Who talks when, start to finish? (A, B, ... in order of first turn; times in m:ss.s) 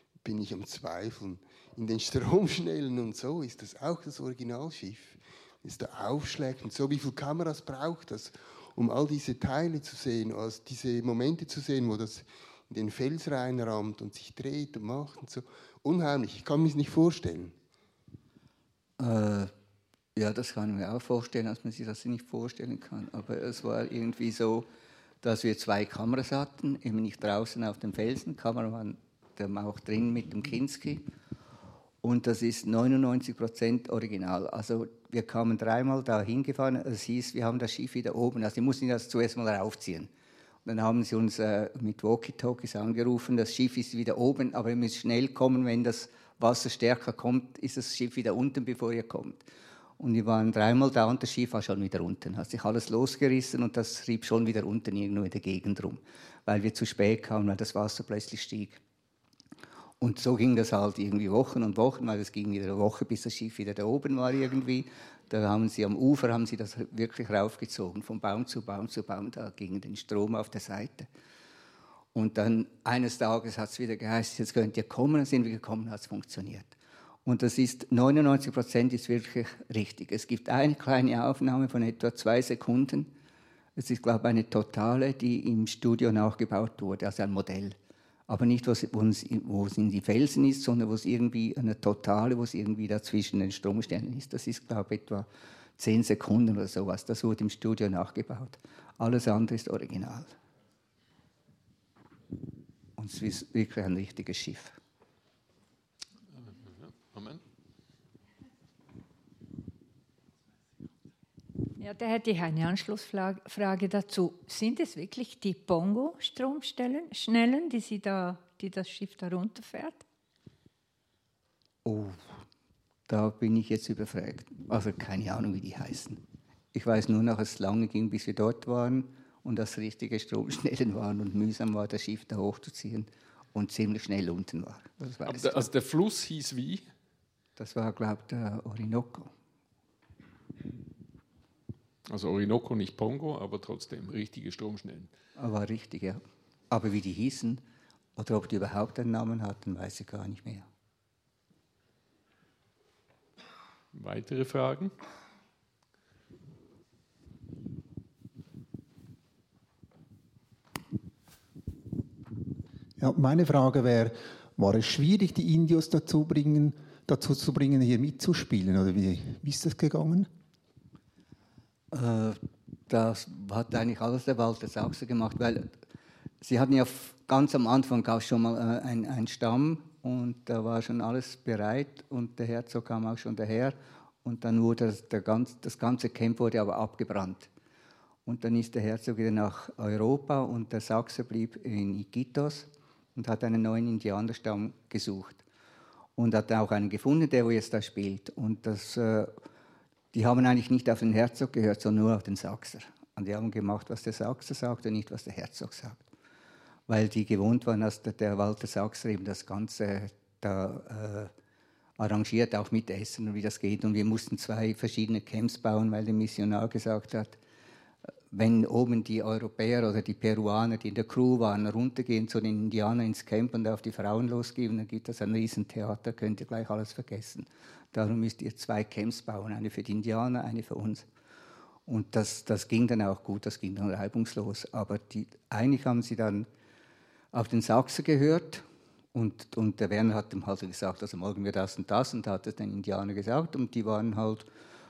0:00.2-0:17.6 A
0:19.0-0:19.5 B
0:20.2-0:24.7 B
0:25.2-0:31.1 B
0:32.0-0:40.1 B
0:40.6-0:49.4 B
0:50.0-0:58.8 B
1:00.0-1:11.1 B
1:12.1-1:23.1 B
1:23.8-1:27.8 B
1:28.3-1:40.4 B
1:43.0-1:44.8 B
1:46.4-1:47.4 C
1:51.8-2:00.0 D
2:01.8-2:02.3 B
2:03.1-2:06.2 B
2:06.7-2:15.7 B
2:15.2-2:16.8 C
2:17.6-2:19.3 B
2:22.1-2:25.1 C
2:25.4-2:27.6 B
2:28.2-2:30.7 B
2:33.9-2:34.9 C
2:43.0-2:50.3 E
2:51.9-2:55.7 B
2:56.4-3:07.5 B
3:08.3-3:15.4 B
3:16.2-3:19.3 B
3:20.1-3:26.1 B
3:26.9-3:31.3 B
3:32.0-3:37.4 B
3:38.3-3:51.1 B
3:51.9-3:56.5 B
3:57.3-4:04.5 B